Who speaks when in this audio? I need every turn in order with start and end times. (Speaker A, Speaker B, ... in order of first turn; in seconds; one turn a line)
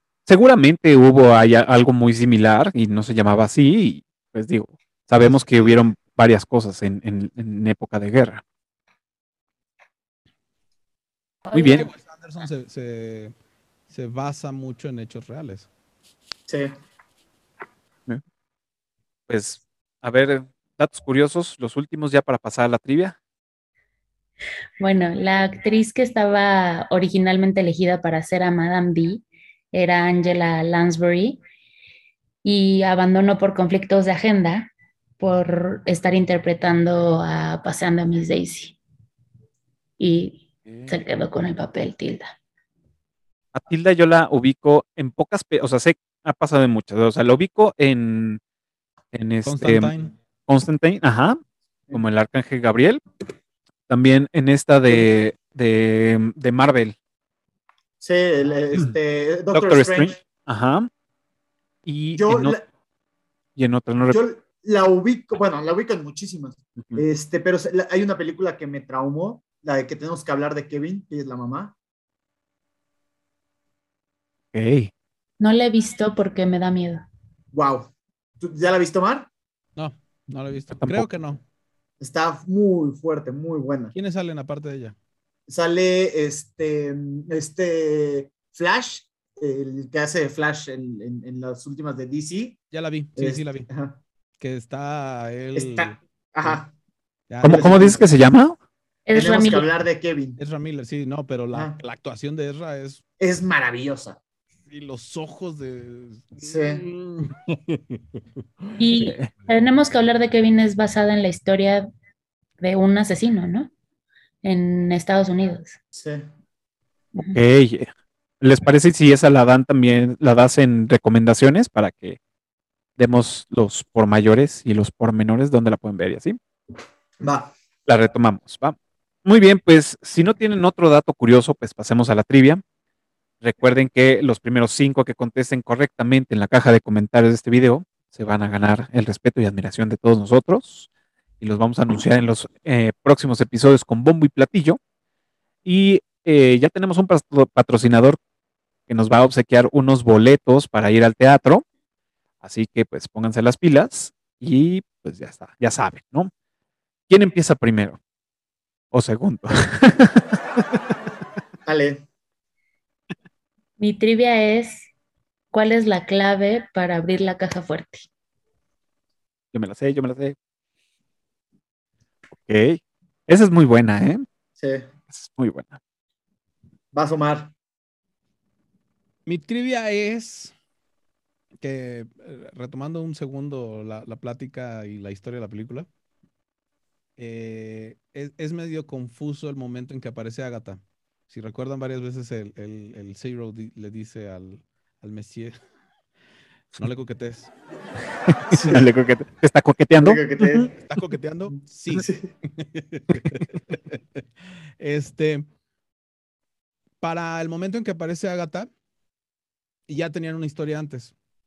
Speaker A: 0.2-8.4
Speaker B: 5.2-5.9
Speaker C: 11.4-11.9
Speaker A: 11.5-11.8
Speaker D: 11.6-13.3
Speaker D: 13.9-15.7
Speaker A: 19.3-23.1
Speaker C: 24.8-31.4
Speaker C: 32.4-34.7
Speaker C: 35.2-38.8
Speaker C: 40.0-42.3
Speaker A: 40.6-41.0
Speaker A: 43.5-48.4
Speaker A: 49.1-49.9
Speaker D: 49.4-50.1
Speaker A: 50.5-51.4
Speaker A: 51.9-53.0
Speaker A: 53.9-57.0
Speaker B: 58.0-60.2
Speaker A: 59.5-60.9
Speaker A: 61.9-62.6
Speaker B: 62.1-62.6
Speaker A: 63.5-64.2
Speaker B: 64.0-71.7
Speaker A: 66.8-67.0
Speaker A: 74.5-74.9
Speaker C: 75.4-77.0
Speaker B: 77.5-79.3
Speaker D: 79.8-81.4
Speaker A: 80.7-81.1
Speaker B: 82.0-83.9
Speaker D: 83.9-85.0
Speaker B: 85.5-92.6
Speaker D: 92.7-93.7
Speaker B: 93.2-94.0
Speaker D: 94.4-96.6
Speaker B: 95.5-96.7
Speaker D: 97.3-98.0
Speaker A: 97.4-98.6
Speaker B: 97.4-98.0
Speaker C: 99.1-99.7
Speaker B: 99.1-100.4
Speaker D: 100.4-103.0
Speaker B: 103.2-104.2
Speaker D: 104.7-108.8
Speaker B: 106.4-106.8
Speaker C: 108.8-111.9
Speaker A: 109.0-109.3
Speaker C: 112.6-113.7
Speaker C: 114.4-115.8
Speaker B: 115.9-116.2
Speaker A: 117.3-122.2
Speaker A: 123.0-126.4
Speaker B: 127.2-127.5
Speaker A: 127.8-132.6
Speaker A: 133.4-140.9
Speaker A: 141.4-144.8
Speaker A: 145.6-148.2
Speaker A: 148.9-151.6
Speaker A: 152.4-156.3
Speaker A: 157.1-158.0
Speaker A: 158.9-160.6
Speaker B: 161.7-162.0
Speaker C: 163.8-164.9
Speaker C: 165.5-168.1
Speaker A: 169.5-170.3
Speaker A: 172.4-174.2
Speaker B: 174.6-174.8
Speaker A: 175.1-175.8
Speaker B: 176.9-177.5
Speaker D: 179.2-180.5
Speaker D: 181.6-185.9
Speaker D: 187.2-195.6
Speaker D: 196.8-197.5
Speaker A: 198.3-200.7
Speaker B: 198.5-198.8
Speaker B: 200.0-200.7
Speaker D: 200.7-205.5
Speaker B: 202.0-202.3
Speaker D: 207.0-208.7
Speaker D: 209.9-211.1